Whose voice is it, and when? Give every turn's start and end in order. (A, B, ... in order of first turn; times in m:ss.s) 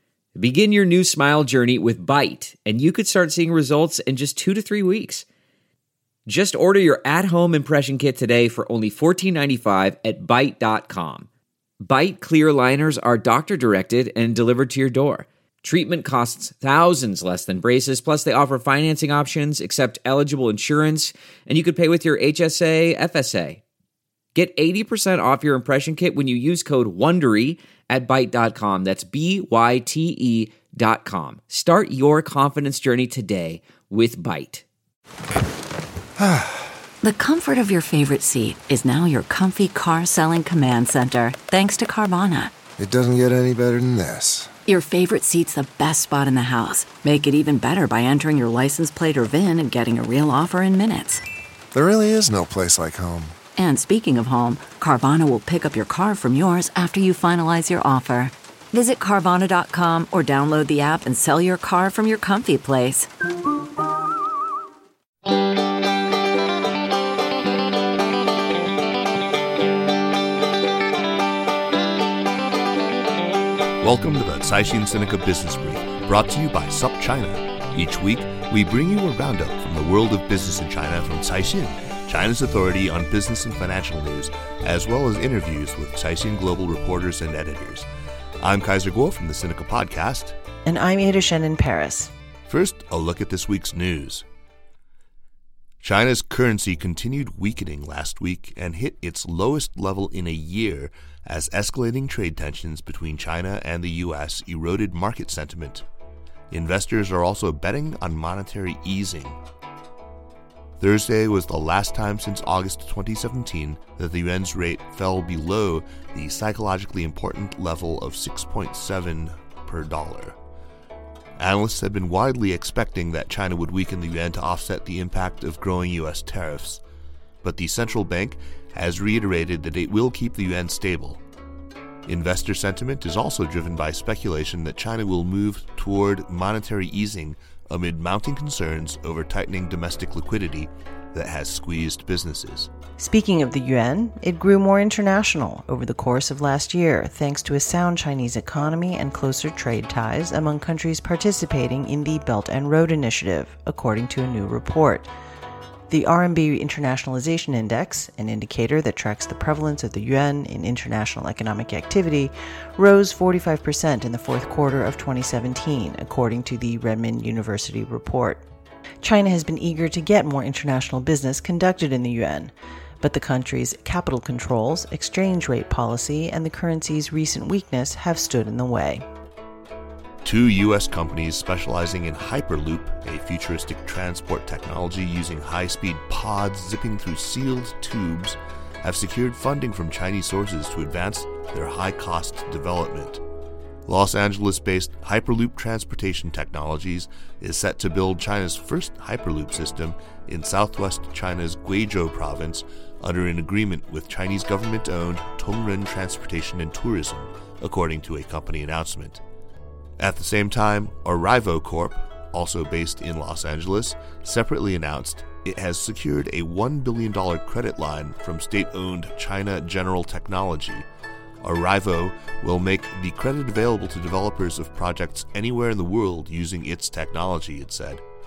0:00.4-0:05.2 A
0:06.3-0:11.3 A
0:11.8-0:23.6 A
0:24.4-0:34.6 A
0:36.2-0:36.6 B
0:37.0-0:42.6 C
0:42.8-0:44.5 B
0:44.7-0:51.2 C
0:51.7-0:53.4 B
0:53.6-1:03.1 C
1:13.8-1:27.9 D
1:28.4-1:30.4 D
1:30.6-1:32.1 E
1:32.5-1:34.2 D
1:35.8-1:45.8 D
1:46.5-1:49.4 D
1:50.8-2:00.4 D
2:01.4-2:06.8 D
2:07.4-2:11.2 D
2:12.1-2:22.7 D
2:23.0-2:35.1 E
2:35.9-2:48.4 E
2:49.0-2:59.0 E
3:00.2-3:13.2 D
3:13.9-3:29.2 D
3:30.0-3:40.9 D
3:41.4-3:48.0 D